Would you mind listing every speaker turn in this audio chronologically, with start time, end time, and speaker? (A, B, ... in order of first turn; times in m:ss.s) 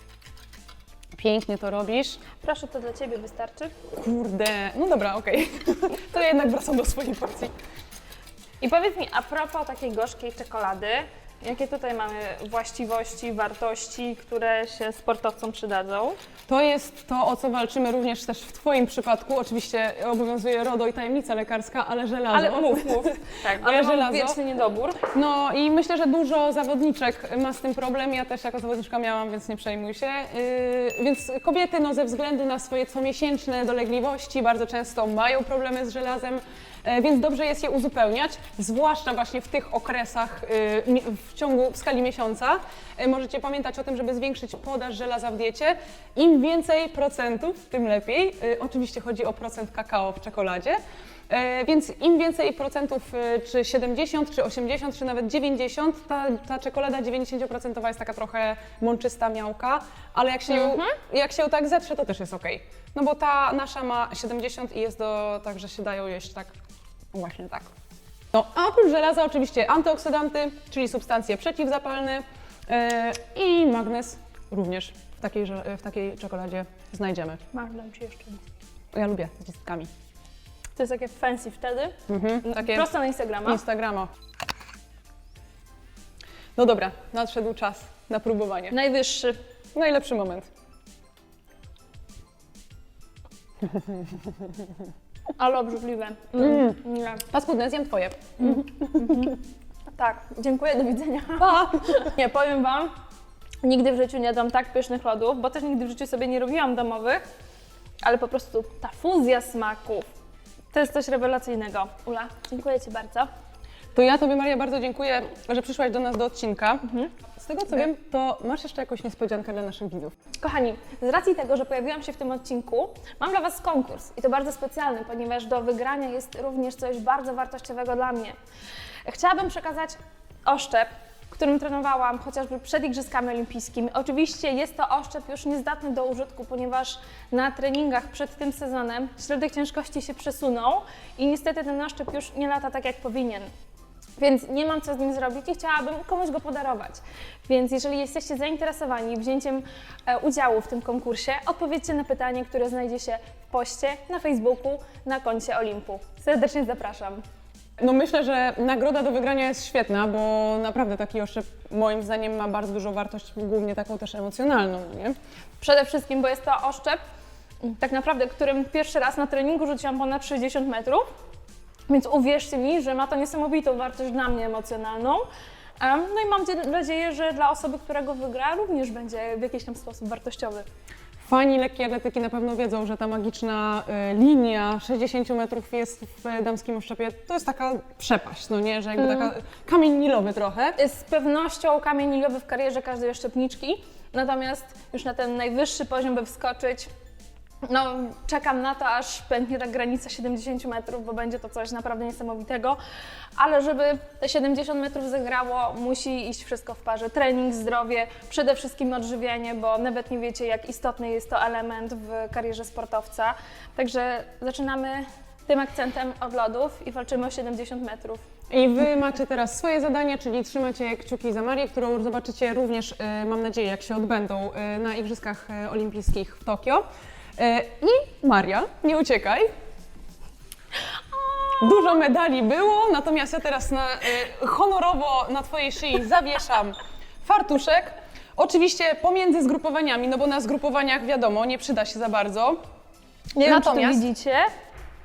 0:01.1-0:02.2 A
0:02.4-0:03.8 B
0:03.9-0:07.5 A
0:08.6-0:16.2 B
0:16.5-0:24.4 A
0:22.3-0:25.0 B
0:25.1-1:06.5 A
1:00.5-1:01.0 B
1:07.1-1:07.7 A
1:08.3-1:17.4 A
1:17.5-1:18.4 B
1:18.9-1:19.9 A
1:20.8-1:23.6 B
1:22.1-1:22.9 A
1:23.4-1:24.1 A
1:26.6-1:28.8 A
1:28.7-1:29.4 B
1:29.8-1:30.5 A
1:35.4-1:37.2 B
1:36.4-1:39.3 A
1:38.4-1:39.4 B
1:40.0-1:42.9 B
1:41.4-1:41.8 A
1:43.6-1:47.2 B
1:48.0-1:50.1 B
1:50.7-1:53.3 B
1:53.9-2:00.1 A
2:00.4-2:08.4 B
2:09.0-2:23.5 B
2:24.2-2:37.2 B
2:37.8-2:45.2 A
2:45.6-2:47.0 B
2:47.6-2:51.0 B
2:51.9-2:55.3 B
2:55.8-3:00.7 B
3:01.2-3:10.8 A
3:09.0-3:09.3 B
3:10.8-3:16.9 B
3:17.6-3:22.8 B
3:23.4-3:38.2 B
3:38.5-3:46.8 A
3:47.4-3:49.5 A
3:51.6-4:02.6 A
4:03.4-4:04.5 B
4:03.4-4:04.0 A